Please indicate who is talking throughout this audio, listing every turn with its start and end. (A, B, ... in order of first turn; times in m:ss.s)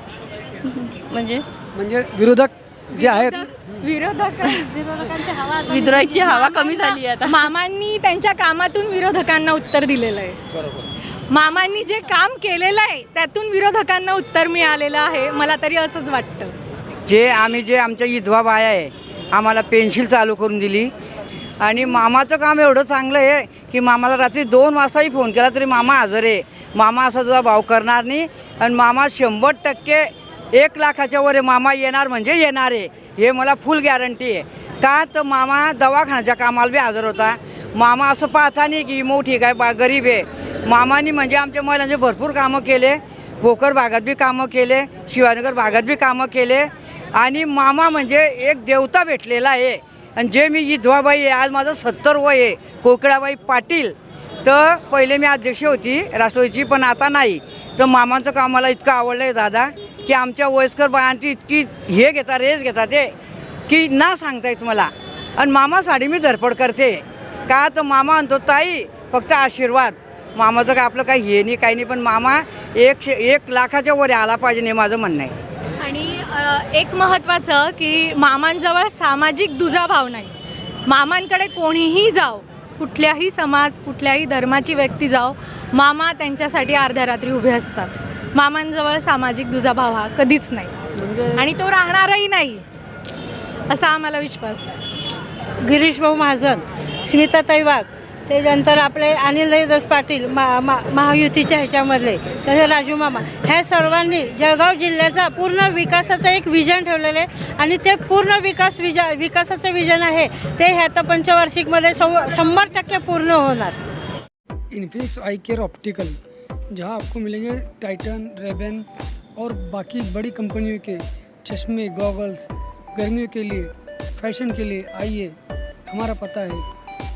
0:00.6-0:01.4 A
0:01.7-0:03.4 B
0:02.9-0:04.7 C
0:04.6-0:06.8 D
0:05.7-0:07.4 A
0:06.2-0:10.4 C
0:11.3-0:16.5 C
0:17.1-0:20.9 E
0:21.6-1:03.1 E
1:03.7-1:15.4 E
1:15.8-1:20.3 C
1:20.8-1:30.7 C
1:31.0-1:31.4 B
1:31.3-1:32.6 C
1:33.7-1:34.7 C
1:35.6-1:53.8 D
1:54.7-1:56.2 B
1:56.7-2:05.4 B
2:05.9-2:06.6 B